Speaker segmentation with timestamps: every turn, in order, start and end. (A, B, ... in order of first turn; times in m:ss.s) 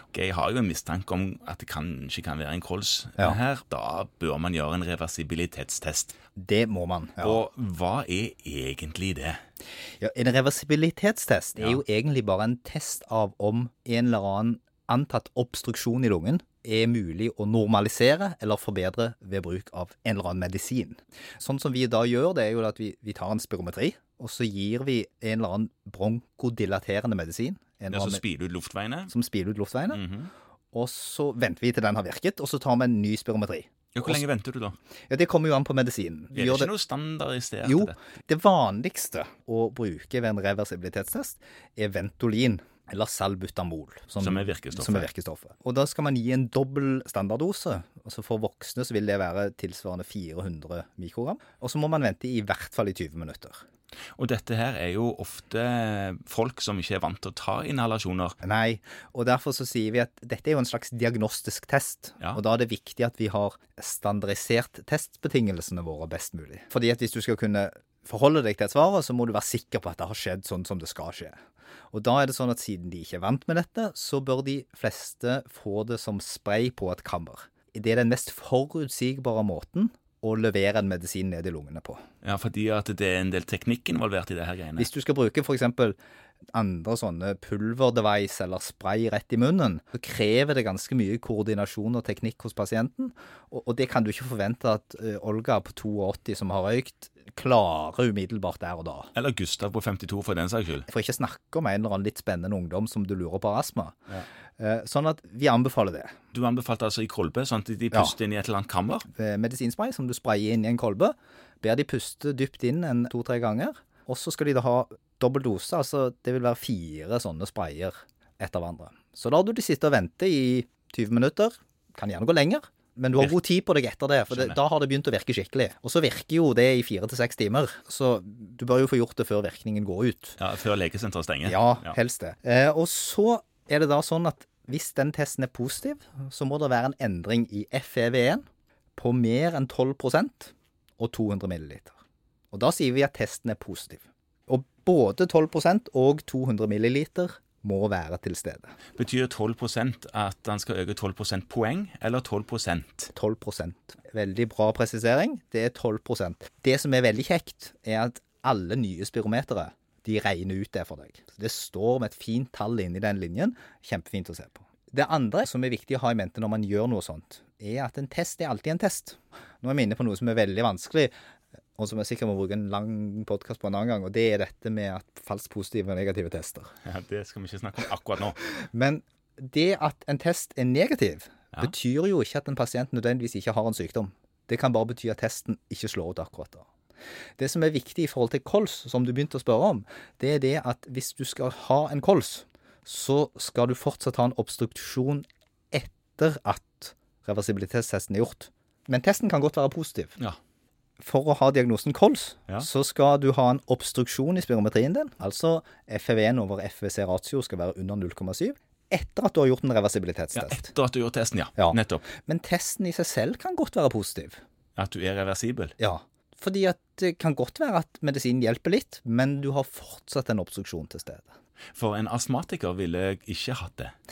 0:00.1-0:06.1 A
0:06.4-0:07.4 B
0:07.2-0:09.4 A
0:10.0-0:28.2 B
0:27.9-0:29.1 A
0:29.1-0:30.0 B
0:29.9-0:30.3 A
0:30.7-0:34.2 B
0:33.9-0:34.8 A
0:35.1-0:36.7 B
0:36.3-0:38.0 A
0:37.6-0:53.6 B
0:44.2-0:45.1 A
0:54.2-0:58.4 A
0:58.4-1:11.4 B
1:11.9-1:22.0 B
1:22.2-1:24.9 A
1:24.8-1:26.0 B
1:26.5-1:39.1 B
1:39.1-1:40.9 A
1:40.9-1:44.0 B
1:44.6-1:46.1 B
1:46.3-1:49.1 A
1:49.1-2:10.4 B
2:04.3-2:04.6 A
2:10.4-2:12.0 A
2:11.5-2:18.4 B
2:19.0-2:22.0 B
2:22.5-2:28.7 B
2:29.0-2:33.1 A
2:33.1-2:51.1 B
2:51.8-2:56.7 B
2:56.8-2:58.4 A
2:58.4-3:06.7 B
3:07.4-3:20.2 B
3:21.0-3:30.7 B
3:30.3-3:32.1 A
3:31.6-3:34.4 B
3:34.8-3:35.8 A
3:35.8-3:41.3 B
3:41.7-3:43.9 A